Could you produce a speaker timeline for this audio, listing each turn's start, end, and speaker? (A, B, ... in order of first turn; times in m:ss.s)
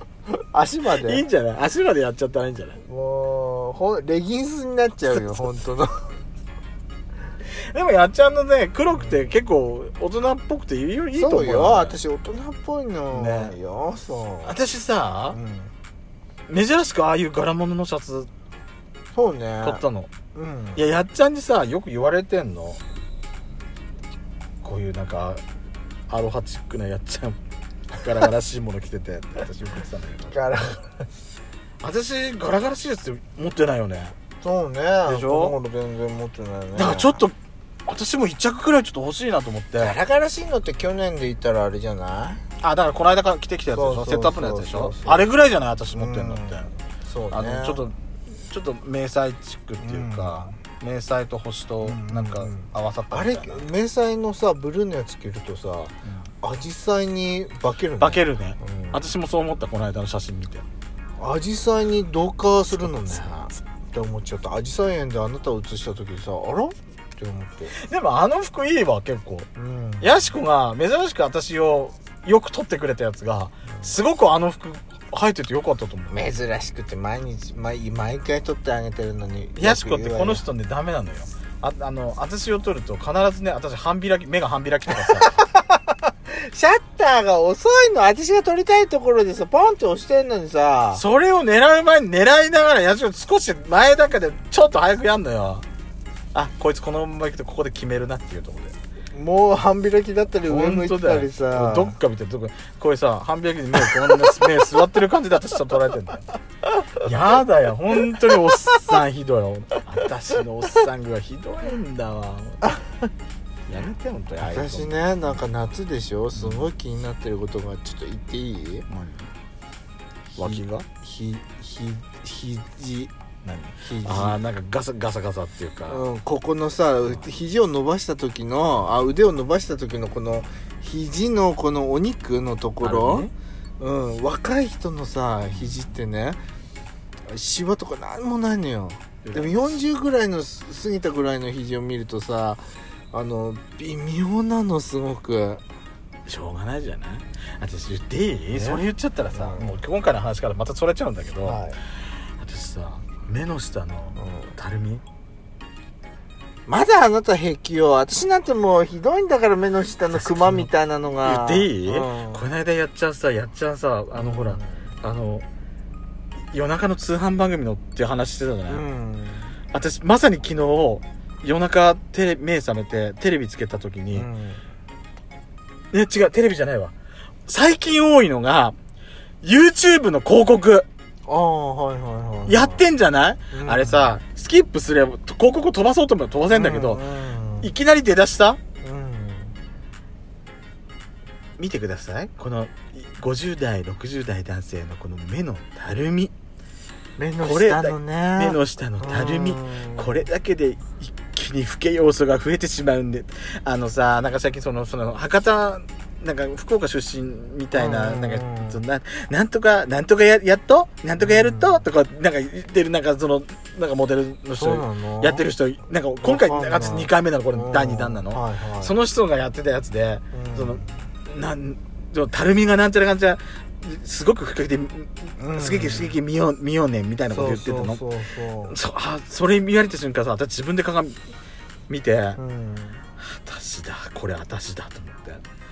0:00.5-0:01.2 A
0:01.0-0:02.8 B
0:02.8-0:06.1 A
0:07.7-0:12.0 B
0:11.2-0:14.6 A
0:13.1-0:13.6 B
0:14.4-0:15.4 B
0:15.3-0:15.7 A
0:16.5-0:18.3 B
0:19.1-0:20.9 A
0:19.6-0:20.1 B
0:20.8-0:22.8 B
0:24.6-0:25.4 B
0:26.1-0:27.4 B
0:27.9-0:30.4 B
0:30.3-0:30.8 A
0:31.8-0:34.2 B
0:34.4-0:37.2 A
0:35.1-0:35.6 B
0:36.8-0:37.3 B
0:37.9-0:40.0 B
0:39.8-0:42.4 A
0:42.6-0:46.7 B
0:43.7-0:45.3 A
0:45.9-0:47.8 A
0:47.3-0:53.7 B
0:49.8-0:50.6 A
0:51.8-0:59.0 A
0:58.0-1:00.7 B
1:01.2-1:07.8 A
1:07.8-1:09.5 B
1:09.6-1:10.3 A
1:10.0-1:16.2 B
1:16.1-1:20.4 A
1:19.6-1:25.4 B
1:25.1-1:31.0 A
1:30.9-1:35.6 B
1:36.3-1:38.8 B
1:39.1-1:42.0 A
1:40.5-1:46.3 B
1:47.0-1:52.6 B
1:53.7-1:55.0 B
1:54.4-1:58.9 A
1:56.4-1:56.7 B
1:58.9-1:59.3 B
2:00.4-2:03.1 A
2:00.4-2:00.9 B
2:03.4-2:06.0 B
2:03.8-2:04.4 A
2:05.9-2:16.4 A
2:12.8-2:13.3 B
2:17.3-2:25.6 A
2:19.2-2:19.8 B
2:26.3-2:31.6 B
2:28.5-2:28.8 A
2:29.3-2:29.8 A
2:31.4-2:31.8 A
2:32.4-2:35.0 B
2:34.2-2:34.6 A
2:36.7-2:42.5 A
2:40.1-2:40.7 B
2:41.2-2:45.4 B
2:44.2-2:44.8 A
2:46.5-2:48.8 B
2:48.7-2:49.6 A
2:49.7-2:54.3 B
2:54.1-2:54.6 A
2:55.9-2:56.9 B
2:57.5-2:58.8 B
2:59.4-3:00.9 B
3:01.3-3:02.8 A
3:02.5-3:07.1 B
3:03.5-3:04.1 A
3:06.5-3:07.7 A
3:07.6-3:08.6 B
3:08.8-3:09.6 A
3:11.6-3:16.3 B
3:17.2-3:20.2 A
3:17.4-3:48.0 B
3:27.7-3:28.8 A
3:31.2-3:31.9 A
3:34.6-3:35.4 A
3:36.2-3:38.9 A
3:40.3-3:41.0 A
3:45.4-3:46.2 A
3:47.3-3:48.8 A
3:48.7-3:51.2 B
3:51.9-3:52.4 B
3:52.4-3:53.0 A
3:53.2-3:55.4 B